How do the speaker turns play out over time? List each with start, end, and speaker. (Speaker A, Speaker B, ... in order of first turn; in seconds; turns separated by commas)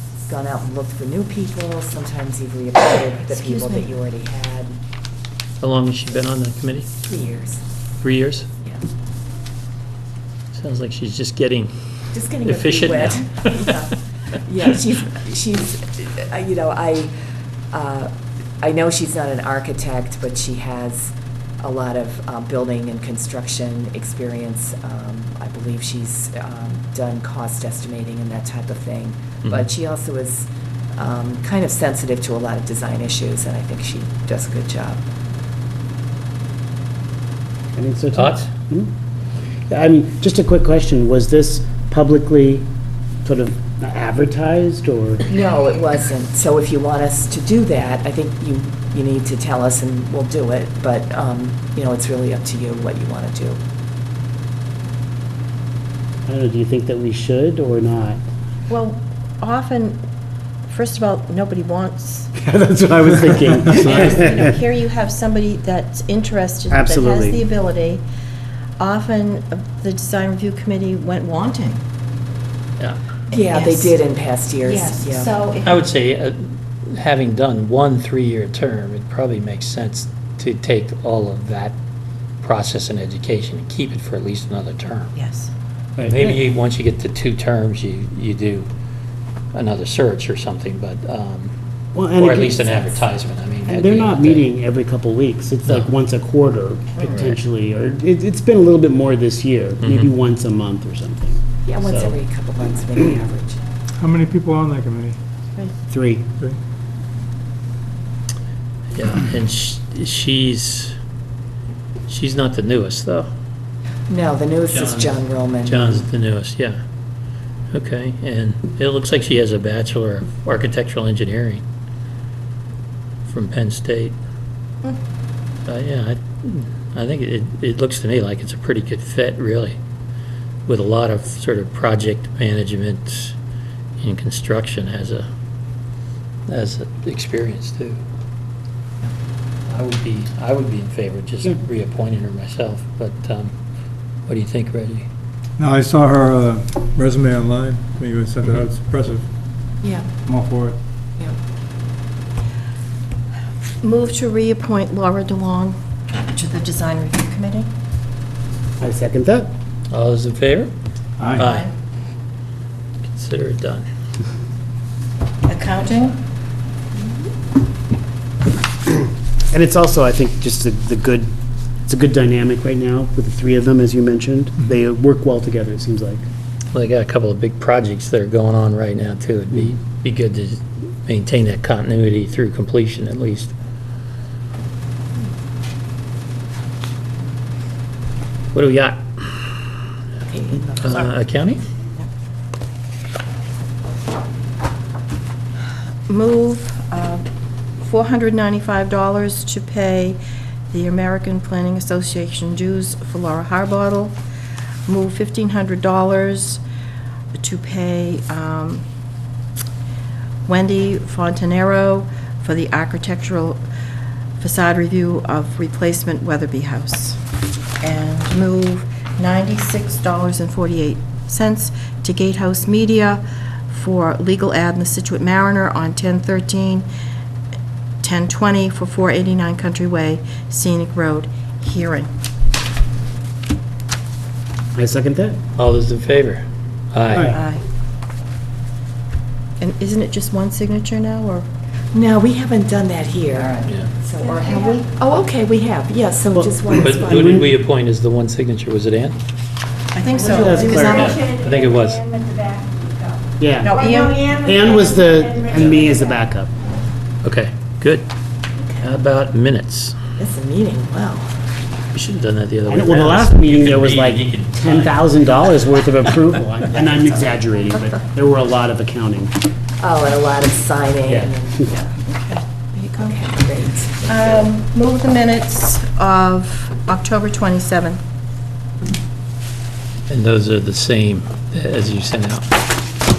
Speaker A: 0.3-4.8, Speaker B: 3.2-3.9, Speaker C: 5.6-6.9, Speaker A: 7.0-7.6, Speaker C: 8.0-8.5, Speaker C: 10.5-11.7, Speaker A: 12.1-17.1, Speaker C: 12.4-13.7, Speaker A: 17.7-35.0, Speaker D: 37.7-38.9, Speaker C: 38.1-38.5, Speaker D: 39.7-42.7, Speaker D: 43.2-45.3, Speaker A: 45.3-53.6, Speaker D: 56.3-58.2, Speaker B: 58.7-60.0, Speaker B: 60.6-62.3, Speaker D: 62.4-64.5, Speaker B: 63.8-68.0, Speaker D: 66.7-67.4, Speaker B: 68.8-71.8, Speaker B: 73.3-74.0, Speaker A: 73.3-75.3, Speaker B: 74.7-75.8, Speaker C: 75.6-81.8, Speaker C: 82.4-85.1, Speaker B: 85.2-85.5, Speaker D: 86.0-86.4, Speaker C: 86.0-88.7, Speaker C: 89.5-91.5, Speaker D: 92.0-92.9, Speaker C: 92.1-94.5, Speaker D: 93.7-102.2, Speaker C: 97.0-97.4, Speaker C: 99.8-100.1, Speaker A: 101.6-103.6, Speaker E: 104.0-105.2, Speaker D: 105.9-106.3, Speaker C: 109.0-110.9, Speaker C: 112.1-113.3, Speaker A: 114.1-116.1, Speaker C: 114.7-116.8, Speaker C: 117.7-121.6, Speaker C: 123.3-124.2, Speaker C: 125.7-129.8, Speaker C: 130.7-133.3, Speaker C: 134.0-135.2, Speaker C: 136.5-138.0, Speaker C: 139.7-143.5, Speaker C: 144.3-145.1, Speaker E: 145.6-149.2, Speaker A: 149.8-150.1, Speaker E: 150.2-150.8, Speaker B: 153.8-157.7, Speaker D: 158.8-159.5, Speaker C: 159.9-160.7, Speaker E: 161.2-161.5, Speaker C: 161.4-161.7, Speaker B: 161.4-161.7, Speaker C: 163.1-163.8, Speaker B: 165.5-166.2, Speaker D: 169.5-171.3, Speaker D: 171.9-176.3, Speaker C: 176.7-183.5, Speaker C: 188.5-189.0, Speaker A: 190.2-191.1, Speaker C: 190.8-191.6, Speaker B: 196.1-197.2, Speaker B: 197.8-204.2, Speaker B: 204.9-206.6, Speaker B: 207.3-208.8, Speaker B: 210.5-213.6, Speaker B: 214.4-217.2, Speaker B: 217.8-226.9, Speaker B: 228.0-232.1, Speaker D: 234.8-235.4, Speaker C: 235.6-237.4, Speaker B: 237.3-237.6, Speaker B: 239.6-241.5, Speaker A: 241.9-247.5, Speaker B: 244.2-244.9, Speaker D: 246.3-247.5, Speaker C: 246.7-249.2, Speaker B: 249.9-251.2, Speaker D: 250.2-251.1, Speaker F: 250.5-251.4, Speaker C: 250.8-252.1, Speaker F: 252.0-253.0, Speaker D: 253.4-256.5, Speaker B: 253.6-254.3, Speaker F: 253.8-256.0, Speaker C: 255.6-255.8, Speaker C: 257.2-258.1, Speaker C: 258.8-259.9, Speaker A: 260.2-261.3, Speaker C: 261.9-265.5, Speaker D: 262.7-269.3, Speaker A: 269.8-272.0, Speaker D: 271.1-271.4, Speaker B: 272.1-273.2, Speaker A: 273.0-274.1, Speaker B: 274.1-278.0, Speaker C: 280.1-282.4